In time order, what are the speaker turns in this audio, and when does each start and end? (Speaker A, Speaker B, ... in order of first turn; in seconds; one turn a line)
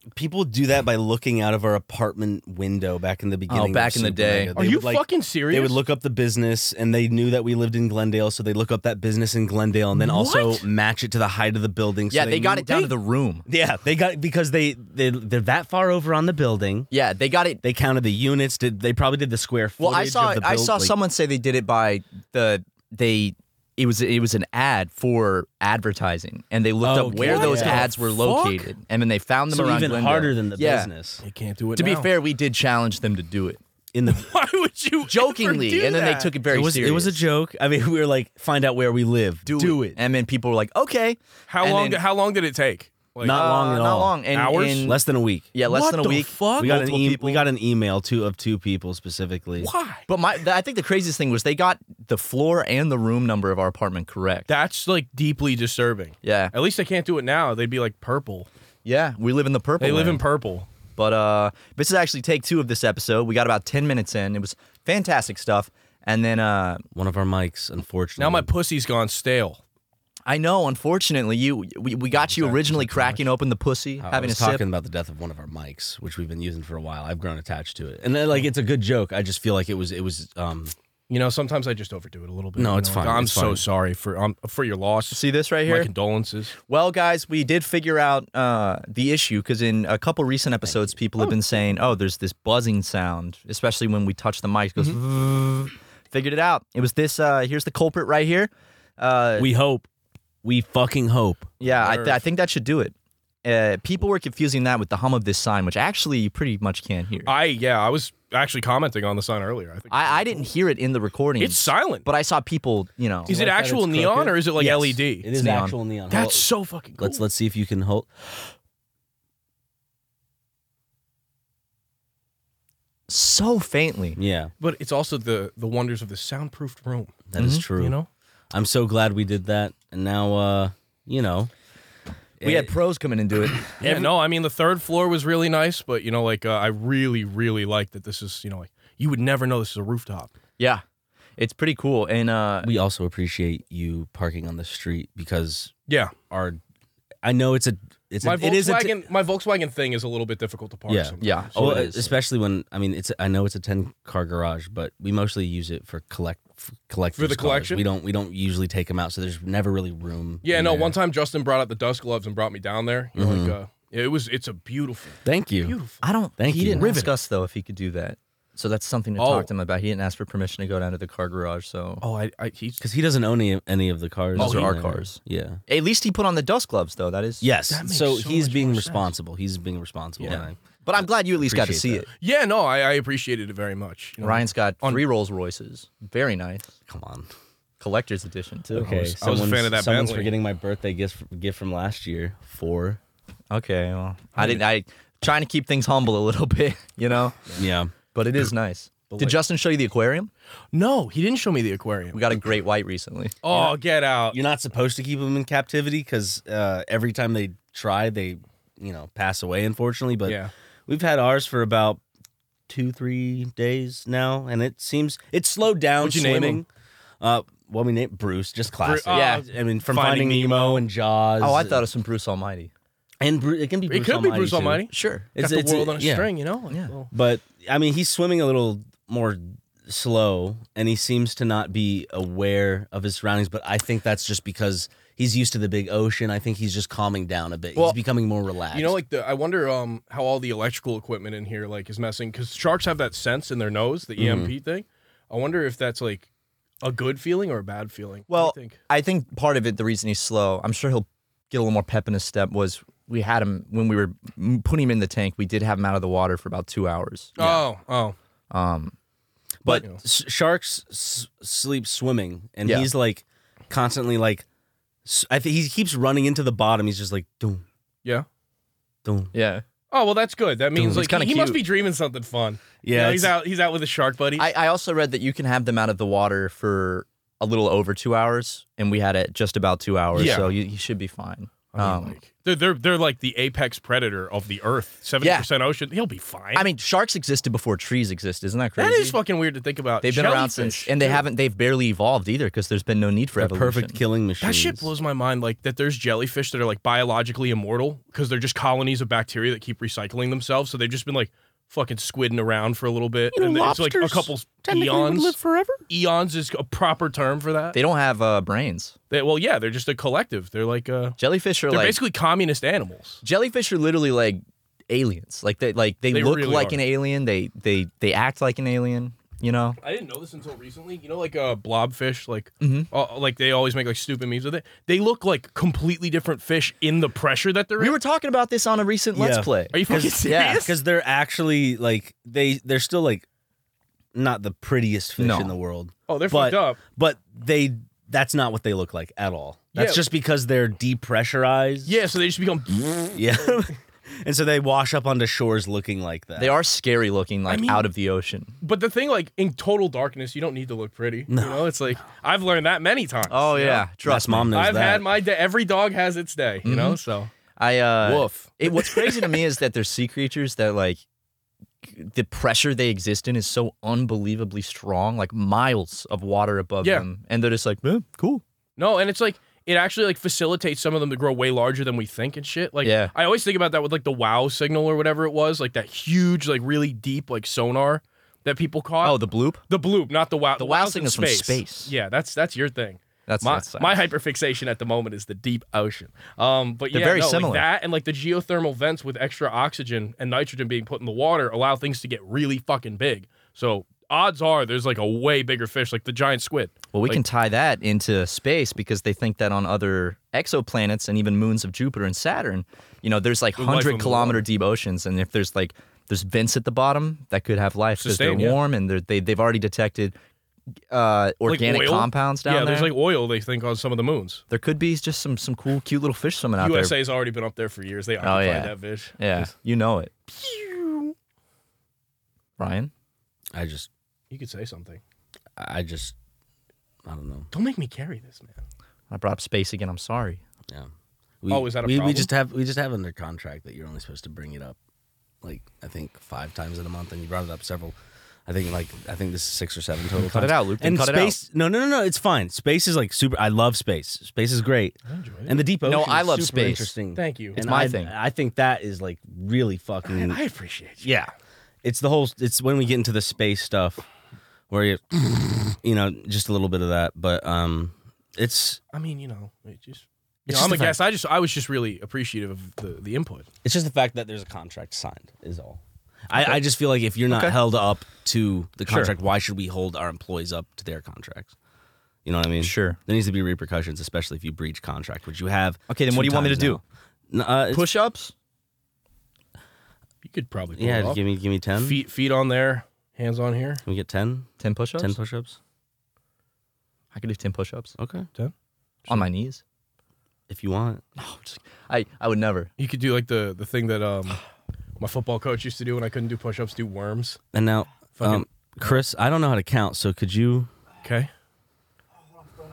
Speaker A: 0.1-12.9
Speaker B: 3.5-4.5
Speaker C: 4.5-5.8
Speaker B: 10.0-10.6
Speaker B: 12.1-13.4
Speaker A: 13.5-16.9
Speaker B: 16.9-17.6
Speaker A: 17.6-20.9
Speaker B: 19.8-30.9
Speaker A: 26.8-27.9
Speaker C: 27.2-28.7
Speaker A: 29.5-31.2
Speaker C: 31.2-32.1
Speaker B: 31.8-33.6
Speaker A: 33.9-34.3
Speaker C: 34.0-36.4
Speaker B: 35.1-37.2
Speaker A: 36.5-40.0
Speaker B: 39.5-42.0
Speaker C: 41.5-43.5
Speaker A: 43.2-44.2
Speaker B: 43.2-45.0
Speaker C: 44.3-44.9
Speaker A: 44.8-45.5
Speaker B: 45.5-47.5
Speaker C: 45.6-46.8
Speaker A: 46.6-49.7
Speaker C: 49.6-50.0
Speaker B: 50.1-54.5
Speaker C: 54.5-58.5
Speaker B: 56.2-56.5
Speaker B: 58.8-60.2
Speaker C: 59.8-60.7
Speaker B: 61.0-66.8
Speaker A: 66.9-68.5
Speaker C: 68.2-69.6
Speaker B: 70.2-74.6
Speaker A: 72.2-73.2
Speaker A: 74.0-80.7
Speaker C: 81.1-86.5
Speaker A: 82.6-83.6
Speaker B: 85.1-85.9
Speaker B: 86.6-99.5
Speaker A: 99.4-99.9
Speaker A: 100.4-101.5
Speaker B: 101.6-107.3
Speaker C: 101.8-102.2
Speaker C: 107.2-110.4
Speaker B: 109.9-113.3
Speaker C: 111.4-112.1
Speaker C: 113.3-115.3
Speaker A: 113.3-116.4
Speaker B: 115.3-115.8
Speaker C: 116.1-117.2
Speaker A: 117.0-118.1
Speaker B: 123.1-124.2
Speaker A: 124.2-124.5
Speaker C: 124.6-127.2
Speaker A: 127.3-127.9
Speaker B: 127.4-127.7
Speaker C: 127.8-128.1
Speaker A: 128.5-131.5
Speaker A: 132.4-132.7
Speaker B: 132.4-133.7
Speaker A: 133.8-134.1
Speaker C: 133.8-140.3
Speaker B: 141.4-142.7
Speaker A: 142.6-146.6
Speaker C: 145.9-146.1
Speaker A: 147.2-148.9
Speaker C: 148.2-152.1
Speaker A: 150.9-160.9
Speaker B: 151.2-152.0
Speaker C: 157.2-157.8
Speaker C: 160.4-167.1
Speaker A: 163.1-163.5
Speaker A: 165.2-165.8
Speaker B: 166.0-172.0
Speaker A: 166.4-167.1
Speaker C: 169.2-169.5
Speaker C: 172.0-172.8
Speaker A: 172.8-175.6
Speaker B: 174.3-177.5
Speaker C: 174.4-174.8
Speaker A: 177.4-180.6
Speaker C: 177.7-179.1
Speaker C: 180.2-180.4
Speaker B: 180.2-182.1
Speaker A: 181.3-182.1
Speaker C: 182.2-185.0
Speaker B: 184.2-186.7
Speaker A: 186.9-187.3
Speaker B: 187.8-189.2
Speaker A: 188.7-193.0
Speaker C: 189.2-190.3
Speaker B: 193.5-197.4
Speaker C: 194.3-194.6
Speaker A: 197.6-197.9
Speaker B: 198.1-200.3
Speaker C: 199.1-199.4
Speaker C: 200.7-202.3
Speaker B: 202.1-203.6
Speaker C: 203.4-204.4
Speaker A: 204.3-212.0
Speaker C: 210.2-210.5
Speaker A: 212.7-216.7
Speaker B: 216.0-216.6
Speaker C: 216.0-216.5
Speaker A: 217.2-221.8
Speaker C: 218.8-220.8
Speaker B: 219.1-219.4
Speaker B: 221.4-222.7
Speaker A: 223.2-226.3
Speaker C: 223.9-227.1
Speaker B: 224.9-225.3
Speaker A: 227.1-239.0
Speaker C: 238.7-246.3
Speaker A: 244.2-244.5
Speaker C: 246.8-248.8
Speaker B: 248.3-257.7
Speaker C: 257.4-258.1
Speaker B: 258.5-258.9
Speaker A: 259.6-264.4
Speaker B: 262.6-262.9
Speaker A: 265.1-267.6
Speaker A: 269.0-269.3
Speaker B: 269.3-269.6
Speaker C: 269.9-274.5
Speaker A: 270.7-271.1
Speaker B: 270.9-271.6
Speaker A: 272.8-273.3
Speaker B: 274.4-282.2
Speaker C: 280.1-280.5
Speaker C: 281.7-286.7
Speaker B: 285.2-285.5
Speaker B: 286.5-289.2
Speaker C: 288.8-291.2
Speaker B: 290.0-294.0
Speaker A: 293.4-294.9
Speaker C: 294.4-305.4
Speaker A: 303.4-305.7
Speaker B: 303.4-303.9
Speaker B: 304.9-305.8
Speaker C: 305.9-307.8
Speaker B: 307.7-308.9
Speaker C: 309.1-313.2
Speaker B: 311.2-312.0
Speaker B: 313.2-319.8
Speaker C: 316.1-316.8
Speaker C: 319.8-328.0
Speaker B: 322.6-322.9
Speaker B: 327.8-330.7
Speaker A: 329.1-333.2
Speaker C: 329.7-330.7
Speaker A: 334.1-341.9
Speaker B: 335.2-335.6
Speaker C: 336.1-336.8
Speaker C: 339.7-340.1
Speaker C: 341.8-343.6
Speaker A: 343.1-346.5
Speaker B: 346.4-348.5
Speaker C: 347.5-347.9
Speaker C: 348.6-353.9
Speaker A: 351.3-351.9
Speaker B: 353.3-354.5
Speaker A: 354.0-355.1
Speaker C: 354.5-357.3
Speaker B: 356.6-357.0
Speaker B: 357.6-361.0
Speaker C: 358.0-359.4
Speaker B: 361.8-368.4
Speaker C: 366.8-367.1
Speaker C: 368.8-397.2
Speaker B: 372.8-373.1
Speaker B: 379.0-379.6
Speaker B: 380.6-381.9
Speaker B: 383.3-384.0
Speaker B: 386.9-387.7
Speaker B: 396.9-410.2
Speaker C: 403.6-404.4
Speaker C: 408.0-408.6
Speaker B: 410.9-412.9
Speaker C: 411.4-414.4
Speaker B: 414.5-416.9
Speaker C: 416.6-419.5
Speaker B: 418.2-420.1
Speaker C: 420.3-421.1
Speaker B: 422.6-422.9
Speaker A: 423.5-423.9
Speaker C: 424.3-425.0
Speaker A: 425.6-426.1
Speaker A: 427.1-427.5
Speaker C: 427.5-428.6
Speaker B: 429.1-430.4
Speaker A: 431.4-434.8
Speaker C: 431.5-432.3
Speaker A: 435.4-437.9
Speaker A: 438.5-450.4
Speaker B: 440.1-441.4
Speaker C: 445.1-445.6
Speaker B: 445.8-446.9
Speaker C: 447.2-447.6
Speaker B: 447.5-448.1
Speaker C: 450.0-451.1
Speaker A: 451.0-451.3
Speaker A: 451.8-454.1
Speaker A: 454.7-458.8
Speaker C: 458.9-463.5
Speaker B: 460.5-461.0
Speaker A: 463.6-471.5
Speaker B: 466.3-466.6
Speaker B: 467.3-467.6
Speaker B: 468.9-469.1
Speaker A: 472.2-477.9
Speaker B: 472.6-473.0
Speaker B: 475.9-476.8
Speaker B: 477.7-478.3
Speaker C: 480.2-481.2
Speaker A: 480.8-482.0
Speaker C: 481.8-483.8
Speaker A: 483.8-485.6
Speaker B: 484.6-485.2
Speaker B: 487.1-487.9
Speaker A: 488.0-488.3
Speaker B: 489.1-489.6
Speaker A: 490.5-491.0
Speaker B: 491.2-492.7
Speaker C: 492.8-494.4
Speaker C: 495.0-497.4
Speaker A: 497.5-500.7
Speaker C: 498.1-498.9
Speaker C: 501.0-501.3